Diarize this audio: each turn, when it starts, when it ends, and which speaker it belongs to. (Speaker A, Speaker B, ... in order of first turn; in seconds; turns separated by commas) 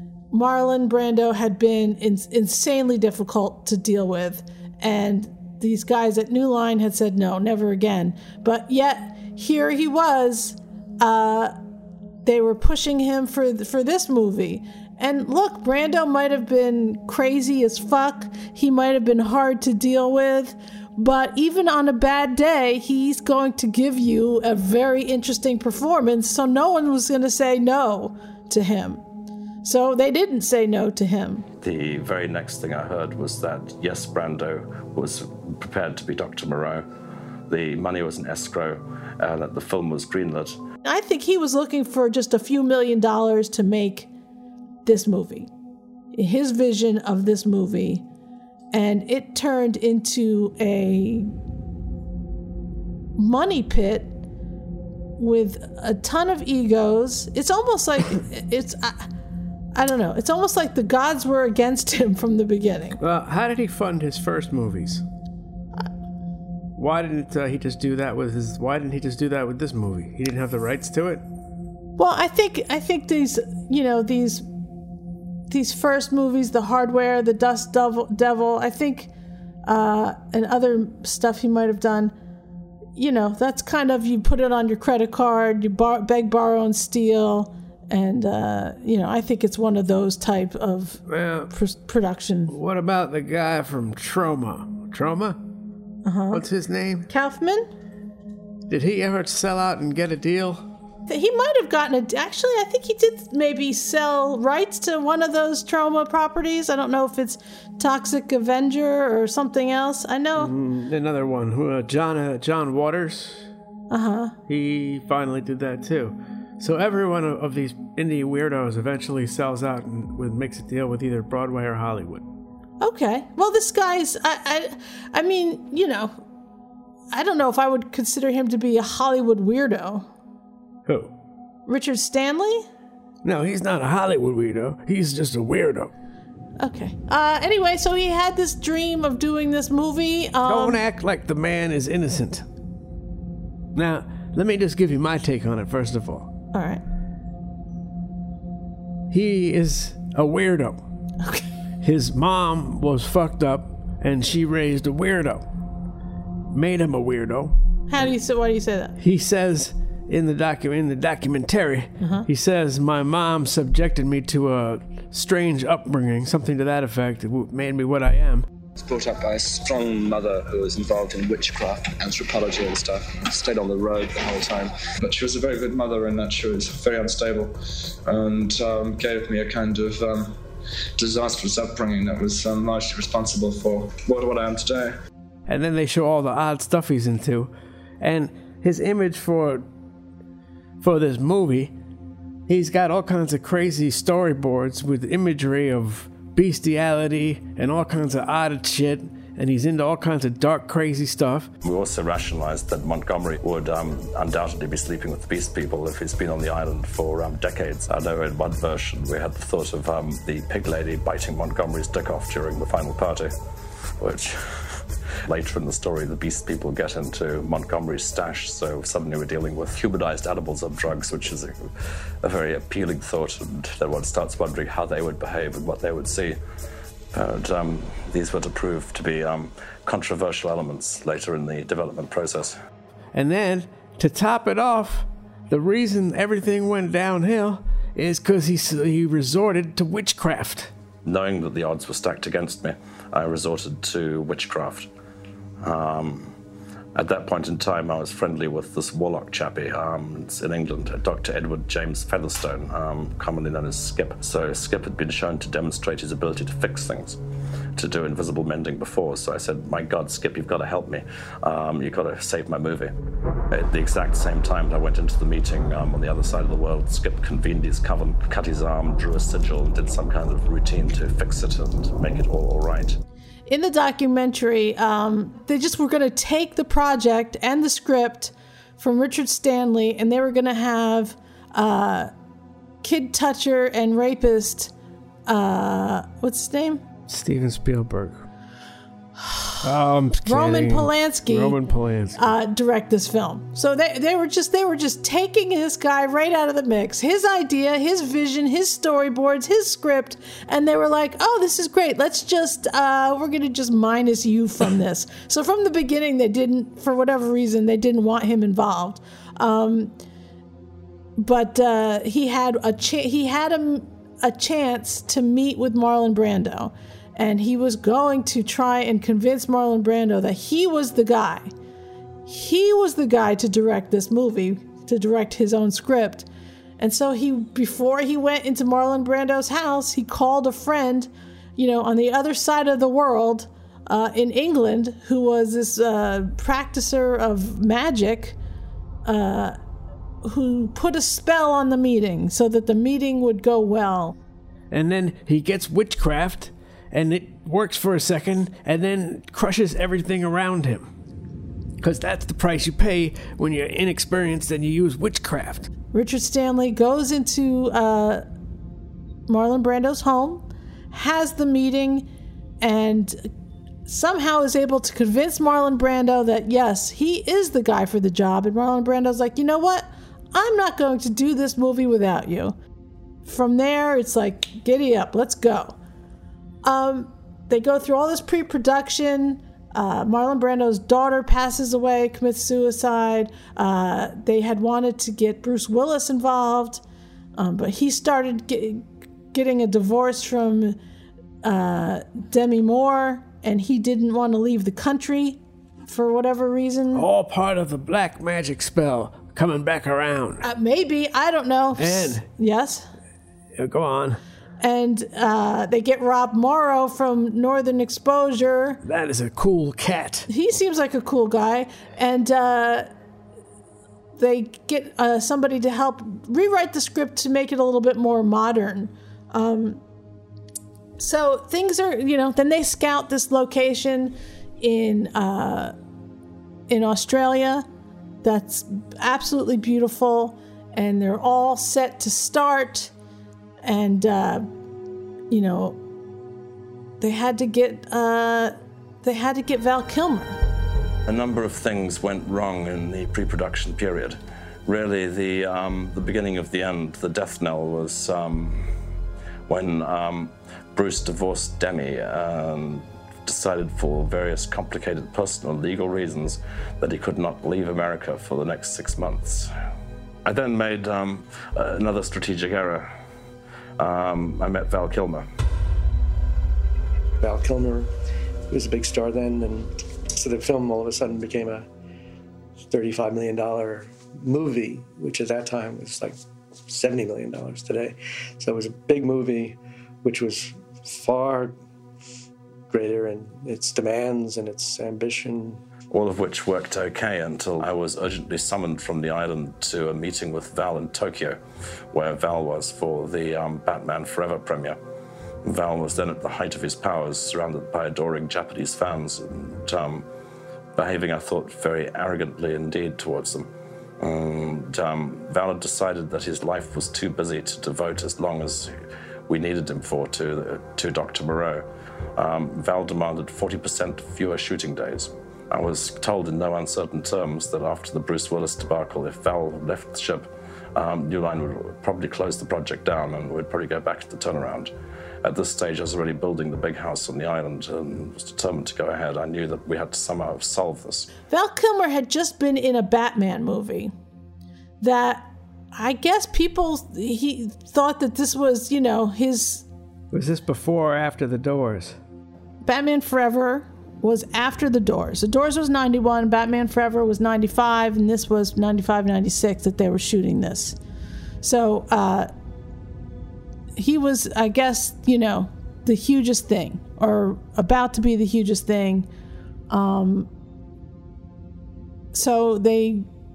Speaker A: 0.3-11.6, Speaker A: 12.2-29.0, Speaker A: 29.6-31.4, Speaker B: 31.6-36.9, Speaker B: 37.5-40.6, Speaker A: 40.8-44.1, Speaker A: 44.8-45.5, Speaker A: 46.1-48.0, Speaker A: 48.7-51.3, Speaker A: 53.2-54.2, Speaker A: 55.2-59.1, Speaker A: 59.8-63.0, Speaker C: 63.0-65.0, Speaker C: 66.8-71.2, Speaker A: 72.0-74.5, Speaker A: 75.5-79.1, Speaker A: 79.7-82.1, Speaker A: 83.0-92.5, Speaker C: 91.1-91.5, Speaker C: 92.5-95.4, Speaker A: 96.0-96.5, Speaker C: 96.3-97.0, Speaker A: 97.1-97.7, Speaker C: 98.7-100.6, Speaker A: 101.1-110.5, Speaker C: 110.4-113.5, Speaker A: 113.9-114.3, Speaker C: 114.5-122.2, Speaker A: 122.8-126.2, Speaker A: 127.1-130.1, Speaker C: 130.9-131.1, Speaker A: 131.7-132.7, Speaker C: 133.2-135.9, Speaker A: 136.6-140.8, Speaker C: 140.4-142.4, Speaker C: 143.8-146.3, Speaker A: 146.5-146.8, Speaker C: 149.1-150.8, Speaker C: 151.8-155.4, Speaker C: 156.5-157.5, Speaker A: 157.9-158.9, Speaker C: 159.0-168.4, Speaker A: 162.0-162.2, Speaker D: 168.8-177.5, Speaker D: 178.1-180.3, Speaker D: 181.0-184.9, Speaker C: 185.5-189.6, Speaker C: 190.8-191.7, Speaker C: 192.5-201.5, Speaker B: 201.6-213.3, Speaker B: 214.0-221.7, Speaker B: 222.2-226.4, Speaker B: 227.1-232.6, Speaker C: 233.1-240.7, Speaker B: 241.1-244.9, Speaker B: 245.6-246.3, Speaker B: 247.0-257.2, Speaker B: 257.8-262.9, Speaker B: 263.5-273.0, Speaker A: 273.5-282.1, Speaker A: 282.8-284.7, Speaker A: 285.3-286.8, Speaker C: 287.1-288.2, Speaker A: 289.2-289.5, Speaker C: 289.6-292.3, Speaker A: 290.2-291.6, Speaker A: 292.1-309.9, Speaker A: 311.2-321.5, Speaker A: 322.2-326.3, Speaker A: 326.8-338.4, Speaker A: 339.1-339.6, Speaker A: 340.2-344.1, Speaker C: 344.7-350.9, Speaker C: 351.8-355.7, Speaker A: 355.9-358.2, Speaker A: 359.3-362.1, Speaker A: 362.6-363.3, Speaker A: 363.9-372.5, Speaker A: 373.2-375.8, Speaker A: 376.6-386.8, Speaker A: 387.4-390.8, Speaker A: 391.4-397.1, Speaker C: 396.9-400.4, Speaker A: 400.4-402.9, Speaker C: 401.8-402.2, Speaker C: 403.6-404.2, Speaker A: 404.6-408.8, Speaker C: 408.8-410.3, Speaker A: 410.3-412.9, Speaker A: 414.2-419.8, Speaker A: 421.0-425.7, Speaker A: 426.7-427.6, Speaker A: 428.2-432.9, Speaker A: 433.6-434.5, Speaker A: 435.3-435.8, Speaker A: 437.0-440.4, Speaker B: 441.1-448.7, Speaker B: 449.5-459.5, Speaker B: 460.2-462.9, Speaker B: 463.8-465.2, Speaker E: 467.2-467.9, Speaker E: 468.5-471.7, Speaker E: 472.7-481.6, Speaker E: 482.7-485.6, Speaker B: 485.9-491.4, Speaker B: 491.9-494.8, Speaker B: 495.4-500.1, Speaker B: 500.8-503.5, Speaker B: 504.0-508.7, Speaker B: 509.3-511.6, Speaker B: 512.2-524.7, Speaker B: 525.2-531.1, Speaker A: 531.3-533.9, Speaker A: 534.8-539.6, Speaker C: 540.1-542.0, Speaker A: 542.6-550.8, Speaker A: 551.4-552.3, Speaker A: 553.8-559.1, Speaker A: 559.7-560.3, Speaker A: 562.1-563.1